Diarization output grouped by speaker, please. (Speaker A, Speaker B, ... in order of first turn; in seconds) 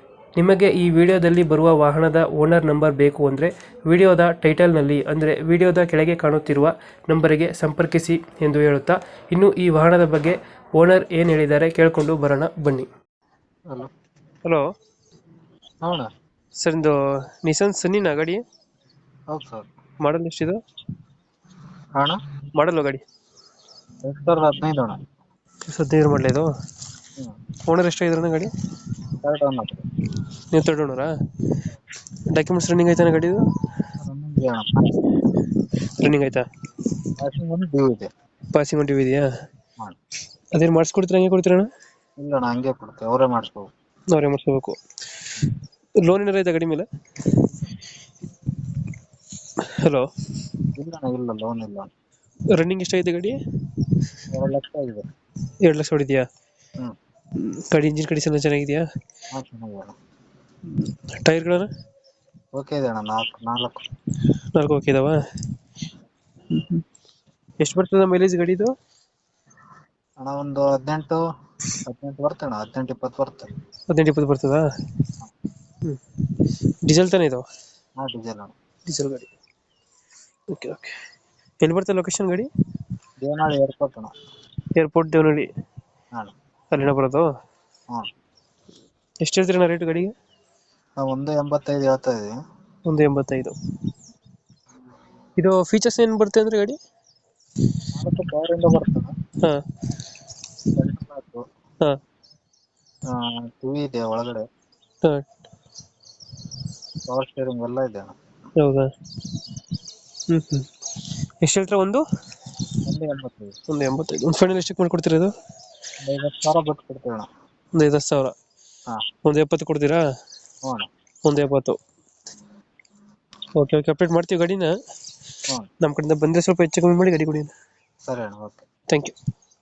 Speaker A: 0.4-12.9, 16.6-18.4, 20.0-20.6, 22.5-23.0, 25.7-26.5, 27.7-28.5, 30.5-31.1, 32.3-33.4, 36.0-36.5, 38.5-39.3, 40.5-41.7, 44.1-44.8, 46.0-47.4, 49.6-50.1, 52.5-53.9, 55.6-56.2, 57.4-58.8, 60.8-61.7, 64.5-65.2, 66.5-66.8, 67.6-68.7, 73.9-74.6, 75.8-77.4, 78.9-79.3, 80.5-80.9, 81.6-82.5, 84.8-85.5, 86.7-87.3, 89.2-90.1, 92.9-93.5, 95.4-96.8, 108.6-109.3, 110.3-110.7, 111.4-112.0, 113.7-115.3, 117.8-118.3, 119.2-120.0, 121.2-121.8, 123.5-124.7, 125.8-127.5, 128.9-129.1
Speaker B: 15.8-16.1, 19.3-19.7, 24.0-25.0, 29.2-29.8, 34.0-34.9, 37.2-38.1, 42.2-43.7, 50.8-51.9, 54.3-55.0, 59.3-59.9, 62.5-63.8, 70.2-71.2, 71.8-73.5, 78.0-78.5, 83.2-84.1, 91.0-92.3, 97.9-99.1, 100.8-101.4, 103.1-104.5, 107.1-108.1, 112.8-113.5, 116.0-117.3, 128.1-128.6